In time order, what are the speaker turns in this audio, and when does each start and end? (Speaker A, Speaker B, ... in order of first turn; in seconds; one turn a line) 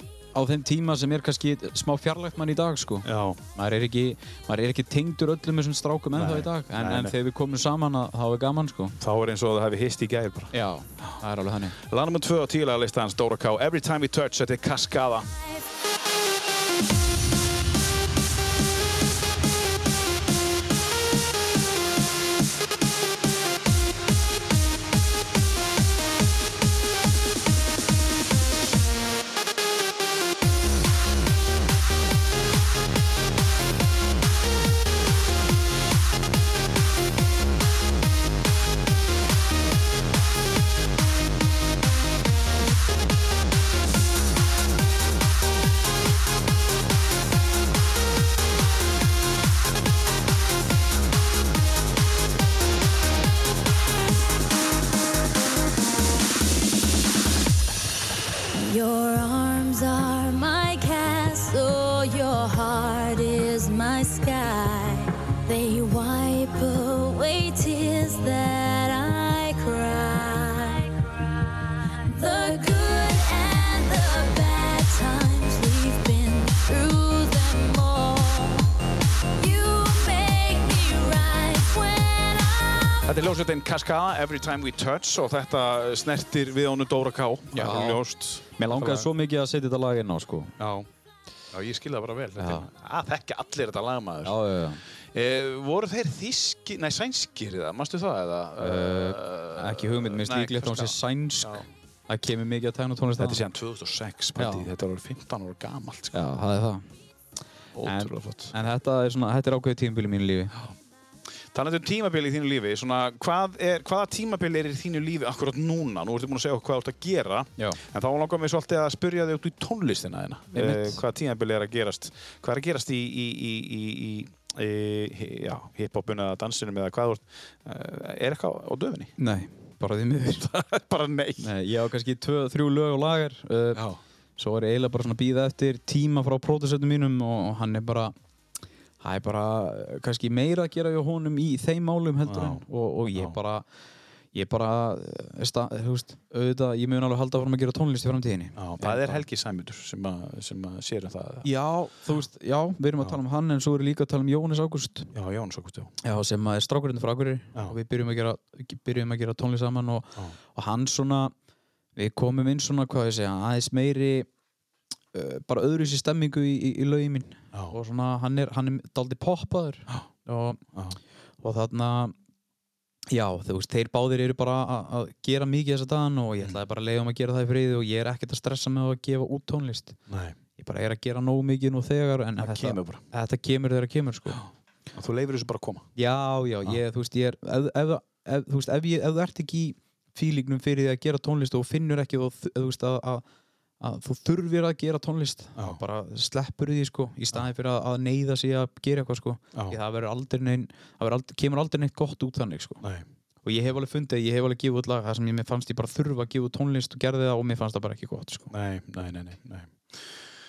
Speaker A: 0.3-9.0
Speaker B: 3.0-3.4
Speaker B: 6.2-7.1
Speaker B: 9.0-11.2
Speaker A: 10.5-11.8
Speaker B: 11.8-15.3
Speaker C: 58.5-71.3
Speaker C: 72.1-78.7
Speaker C: 79.4-83.1
Speaker B: 83.0-89.1
Speaker A: 87.5-88.0
Speaker A: 88.6-90.5
Speaker B: 90.6-90.9
Speaker B: 91.5-94.3
Speaker A: 92.4-92.7
Speaker A: 94.2-94.8
Speaker B: 95.1-101.7
Speaker A: 98.6-103.4
Speaker B: 103.2-106.2
Speaker A: 104.4-104.7
Speaker A: 106.1-106.8
Speaker B: 107.7-108.5
Speaker A: 107.8-110.5
Speaker B: 111.5-129.1
Speaker A: 120.5-121.0
Speaker A: 129.2-130.4
Speaker B: 130.4-131.5
Speaker A: 131.4-133.8
Speaker B: 133.7-134.0
Speaker A: 134.4-138.1
Speaker A: 139.0-143.6
Speaker B: 142.2-143.4
Speaker A: 144.3-149.2
Speaker B: 148.6-151.5
Speaker A: 151.4-155.1
Speaker B: 155.1-155.9
Speaker A: 156.0-161.3
Speaker A: 161.9-164.3
Speaker A: 165.1-170.6
Speaker A: 171.4-172.1
Speaker A: 173.1-180.0
Speaker B: 180.1-180.3
Speaker A: 180.6-184.4
Speaker B: 182.4-183.0
Speaker B: 184.3-185.9
Speaker A: 185.9-193.2
Speaker A: 193.8-202.8
Speaker A: 203.4-208.5
Speaker B: 208.5-210.2